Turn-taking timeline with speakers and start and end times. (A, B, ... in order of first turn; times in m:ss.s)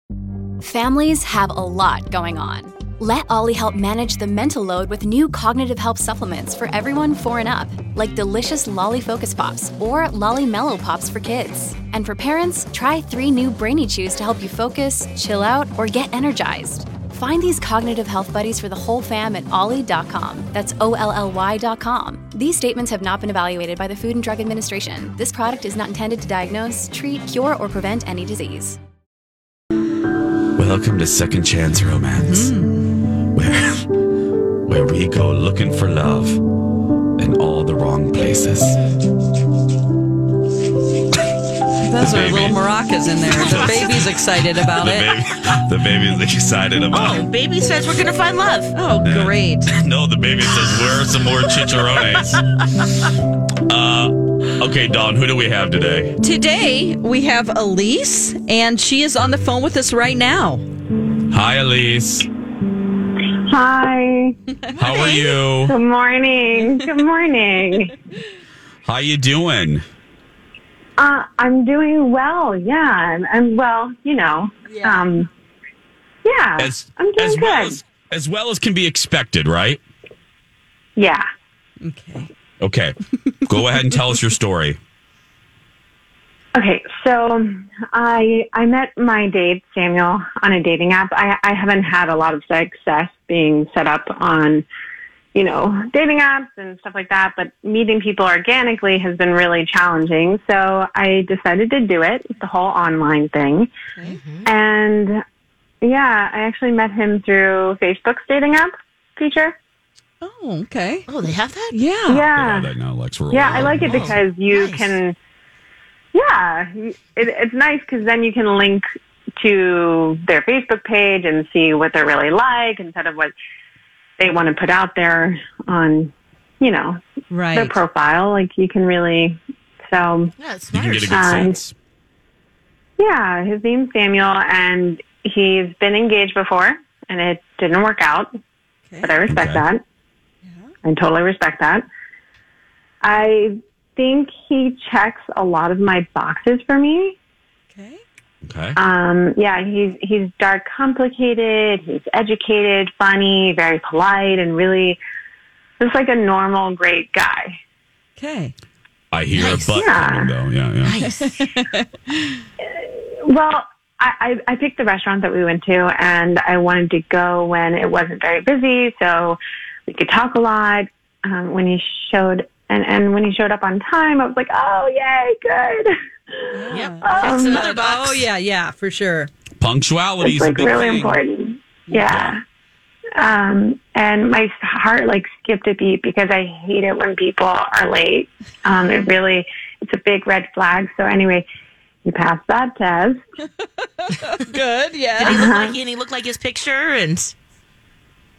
0:00.6-0:28.8 A
0:30.6-0:32.6 B
0:32.2-0:32.8 C
0:33.3-0:33.9 B
0:34.7-0:36.4 B
0:37.2-0:38.8 B
0:38.7-0:39.0 D
0:41.8-0:45.1 C
0:42.0-0:42.6 B
0:43.3-0:44.0 D
0:43.4-0:47.2 B
0:46.9-0:48.8 D
0:48.7-0:49.7 C
0:49.0-0:52.4 B
0:51.6-0:52.0 D
0:53.7-0:56.2 B
0:56.2-1:00.6 C
1:01.3-1:02.3 B
1:03.4-1:04.4 E
1:04.8-1:05.8 B
1:04.8-1:05.3 C
1:05.6-1:07.9 E
1:06.6-1:06.9 C
1:08.8-1:09.8 B
1:11.0-1:15.3 E
1:14.7-1:15.0 C
1:16.2-1:17.8 E
1:16.6-1:19.8 B
1:21.0-1:21.2 E
1:21.8-1:22.3 C
1:22.6-1:24.8 B
1:26.6-1:34.6 E
1:35.4-1:43.7 E
1:44.0-1:44.5 D
1:44.4-1:45.2 E
1:45.8-1:49.6 E
1:50.2-1:51.1 C
1:51.1-1:51.8 D
1:51.7-1:52.3 C
1:52.1-1:52.7 E
1:52.3-1:54.2 B
1:53.3-1:55.2 E
1:53.5-1:54.9 D
1:56.1-1:58.8 E
1:59.4-2:03.3 E
2:04.2-2:07.0 E
2:07.3-2:07.8 C
2:07.5-2:09.4 E
2:09.9-2:10.3 E
2:10.4-2:11.4 D
2:10.7-2:11.8 B
2:11.1-2:11.6 E
2:13.0-2:18.3 E
2:18.9-2:19.2 C
2:19.0-2:19.8 E
2:19.3-2:19.6 B
2:20.8-2:21.8 E
2:23.0-2:27.2 E
2:27.7-2:28.0 C
2:28.4-2:28.8 B
2:28.8-2:35.0 E
2:35.8-2:37.6 E
2:38.2-2:38.5 C
2:39.1-2:41.0 B
2:39.3-2:39.8 D
2:39.7-2:40.3 E
2:40.8-2:41.4 D
2:41.0-2:42.1 C
2:42.6-2:57.7 E
2:56.5-2:59.3 C
2:56.7-2:58.3 D
2:59.6-3:01.2 B
3:00.2-3:02.4 E
3:02.1-3:02.4 B
3:03.2-3:11.4 E
3:12.0-3:13.2 E
3:14.0-3:15.4 C
3:15.2-3:17.4 D
3:15.3-3:15.8 E